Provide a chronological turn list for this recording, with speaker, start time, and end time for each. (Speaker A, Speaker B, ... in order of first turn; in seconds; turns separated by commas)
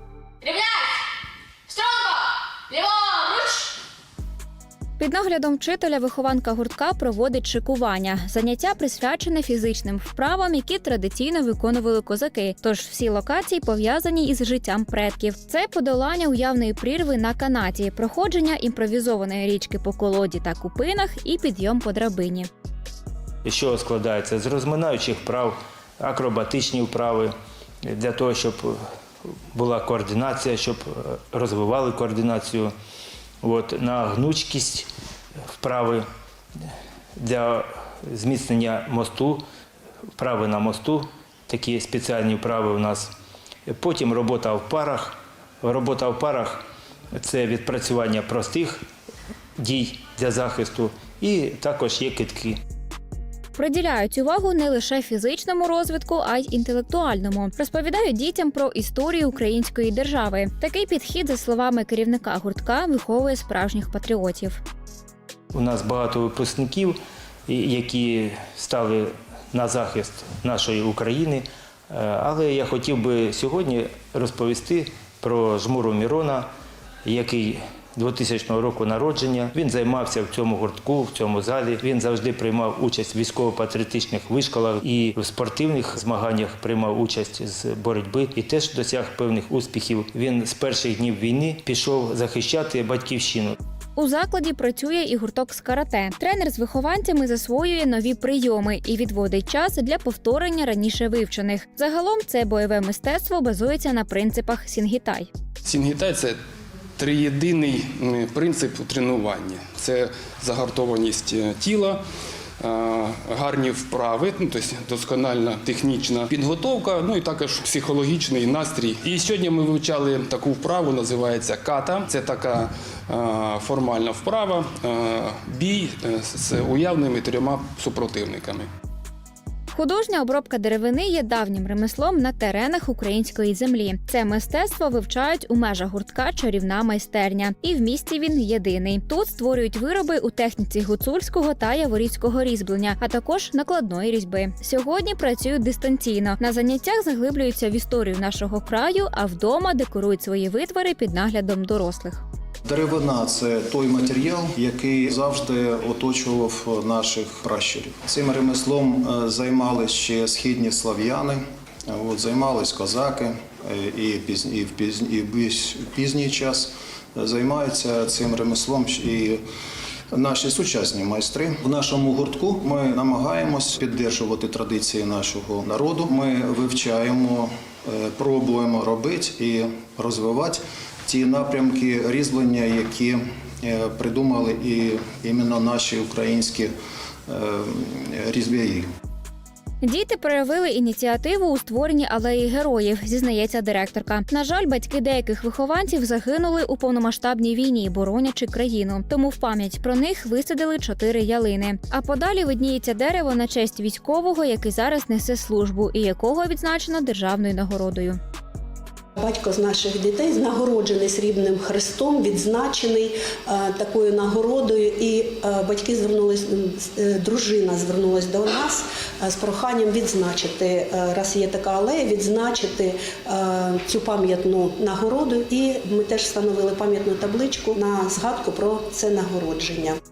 Speaker A: 5.0-22.5, Speaker B: 23.4-28.8, Speaker B: 29.5-32.7, Speaker B: 33.4-34.9, Speaker B: 35.6-36.0, Speaker B: 37.1-39.4, Speaker B: 40.2-43.1, Speaker B: 43.7-46.6, Speaker B: 47.1-48.8, Speaker B: 49.6-52.6, Speaker A: 53.5-64.6, Speaker B: 65.5-76.5, Speaker B: 77.0-93.5, Speaker A: 94.0-105.3, Speaker C: 105.6-106.4, Speaker C: 107.0-112.0, Speaker C: 112.6-128.7, Speaker A: 129.7-152.2, Speaker D: 152.7-169.4, Speaker D: 170.1-186.7, Speaker D: 187.3-188.9, Speaker A: 189.8-208.2, Speaker E: 209.2-230.0